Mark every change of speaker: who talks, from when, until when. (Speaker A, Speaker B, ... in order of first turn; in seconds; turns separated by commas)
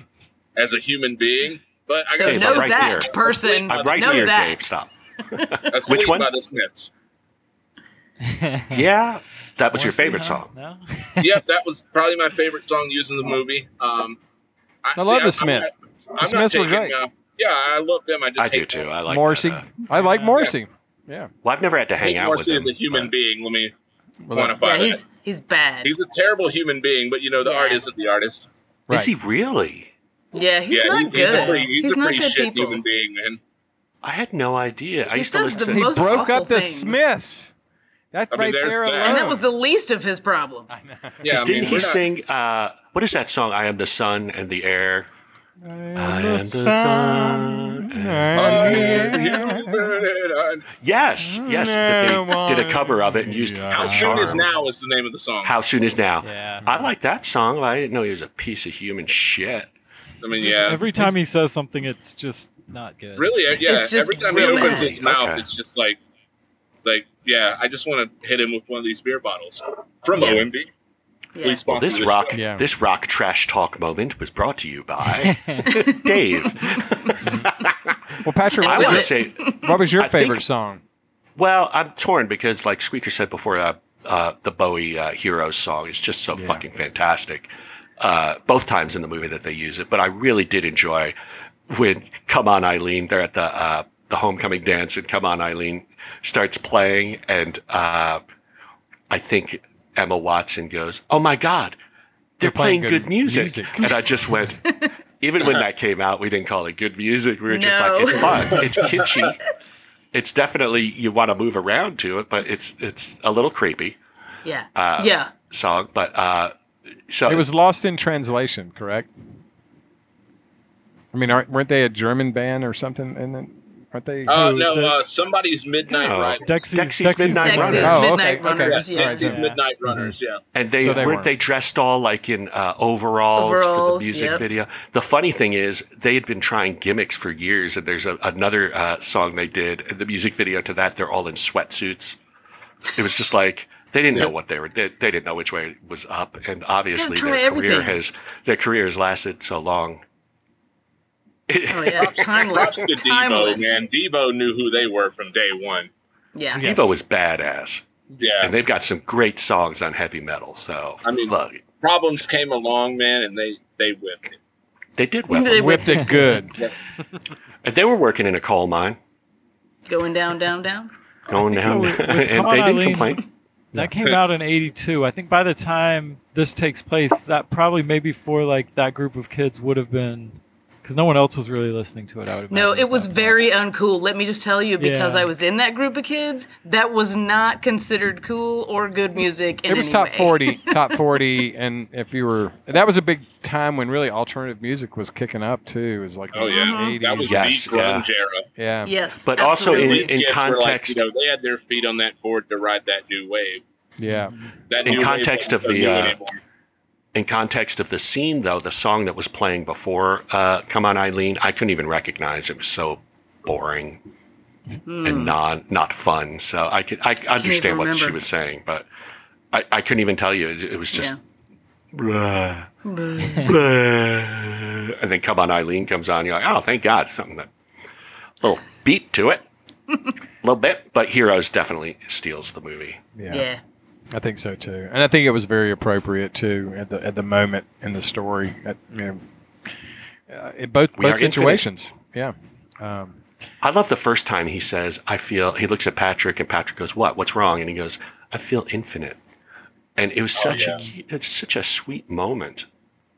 Speaker A: 0.6-4.3, Speaker B: 2.1-4.6, Speaker C: 2.2-6.3, Speaker A: 5.7-6.9, Speaker D: 8.3-8.8, Speaker C: 8.7-10.5, Speaker D: 9.7-11.3, Speaker A: 11.2-14.2, Speaker A: 14.8-18.9, Speaker E: 14.9-15.7, Speaker E: 16.2-16.9, Speaker C: 18.4-19.7, Speaker E: 19.1-21.3, Speaker D: 19.9-20.5, Speaker C: 21.4-23.1, Speaker A: 22.0-23.7, Speaker E: 24.2-24.6, Speaker A: 24.3-25.0, Speaker B: 24.6-25.9, Speaker A: 25.8-28.5, Speaker B: 27.4-27.8, Speaker C: 28.9-29.9, Speaker B: 30.3-32.8, Speaker A: 30.7-33.4, Speaker E: 31.1-31.6, Speaker C: 34.0-36.3, Speaker B: 35.1-37.0, Speaker E: 35.7-37.5, Speaker E: 38.1-39.4, Speaker A: 38.3-39.3, Speaker B: 39.0-40.7, Speaker E: 40.7-41.8, Speaker A: 41.2-42.0, Speaker C: 41.2-45.1, Speaker E: 45.6-50.0, Speaker C: 46.0-49.0, Speaker A: 48.3-50.6, Speaker C: 50.8-54.5, Speaker E: 51.2-54.4, Speaker A: 53.7-55.5, Speaker C: 55.4-59.7, Speaker D: 56.2-56.7, Speaker E: 56.6-56.9, Speaker A: 60.2-60.9, Speaker D: 60.4-63.5, Speaker A: 63.1-66.0, Speaker B: 63.6-65.0, Speaker C: 64.3-65.4, Speaker A: 66.8-70.7, Speaker C: 70.1-70.5, Speaker B: 71.3-71.6, Speaker A: 71.4-72.4, Speaker C: 71.7-80.4, Speaker E: 72.3-72.6, Speaker D: 75.3-75.6, Speaker E: 78.2-80.8, Speaker B: 78.6-79.7, Speaker C: 81.3-91.1, Speaker E: 86.3-86.6, Speaker C: 91.7-98.2, Speaker C: 99.1-101.8, Speaker C: 102.4-109.4, Speaker E: 102.4-103.8, Speaker B: 104.6-104.9, Speaker B: 107.5-108.8, Speaker A: 108.6-109.3, Speaker C: 110.1-114.0, Speaker B: 114.4-115.3, Speaker C: 114.7-116.5, Speaker C: 117.1-117.5, Speaker E: 117.2-119.1, Speaker E: 121.1-124.9, Speaker A: 124.3-126.7, Speaker C: 125.9-128.1, Speaker D: 126.4-128.1, Speaker B: 127.3-129.3, Speaker E: 127.6-130.1, Speaker A: 128.5-130.4, Speaker D: 129.2-129.6, Speaker C: 130.5-142.2, Speaker E: 130.8-131.3, Speaker B: 133.3-134.4, Speaker C: 142.9-150.0, Speaker B: 146.9-148.0, Speaker C: 151.5-152.8, Speaker B: 151.7-153.8, Speaker A: 152.0-155.9, Speaker B: 156.3-156.7, Speaker E: 156.5-156.9, Speaker C: 156.6-157.8, Speaker A: 158.2-158.5, Speaker C: 158.4-161.6, Speaker A: 161.0-164.4, Speaker C: 164.9-165.9, Speaker B: 165.3-166.3, Speaker E: 165.5-166.5, Speaker A: 166.5-166.8, Speaker C: 167.6-169.0, Speaker B: 169.9-170.9, Speaker C: 171.3-173.2, Speaker D: 171.3-173.2, Speaker D: 173.7-183.5, Speaker B: 182.5-190.6, Speaker D: 184.8-185.3, Speaker E: 189.7-197.5, Speaker A: 196.3-198.4, Speaker B: 196.4-196.9, Speaker C: 197.2-198.1, Speaker E: 198.6-198.9, Speaker B: 198.8-200.1, Speaker C: 199.2-201.1, Speaker A: 199.5-203.6, Speaker E: 204.0-204.3, Speaker D: 204.1-204.5, Speaker A: 204.7-206.4, Speaker C: 204.8-206.2, Speaker C: 207.1-214.0, Speaker B: 214.9-215.3, Speaker C: 215.0-218.9, Speaker B: 217.4-218.2, Speaker C: 219.5-221.2, Speaker B: 220.9-221.2, Speaker C: 221.9-222.7, Speaker B: 222.8-223.5, Speaker C: 223.3-227.5, Speaker C: 228.4-229.4, Speaker C: 230.4-233.0, Speaker E: 233.2-233.4, Speaker B: 233.3-233.6, Speaker E: 234.1-239.2, Speaker E: 240.3-243.2, Speaker C: 240.9-241.7, Speaker C: 243.6-249.2, Speaker C: 250.0-252.7, Speaker A: 250.3-250.8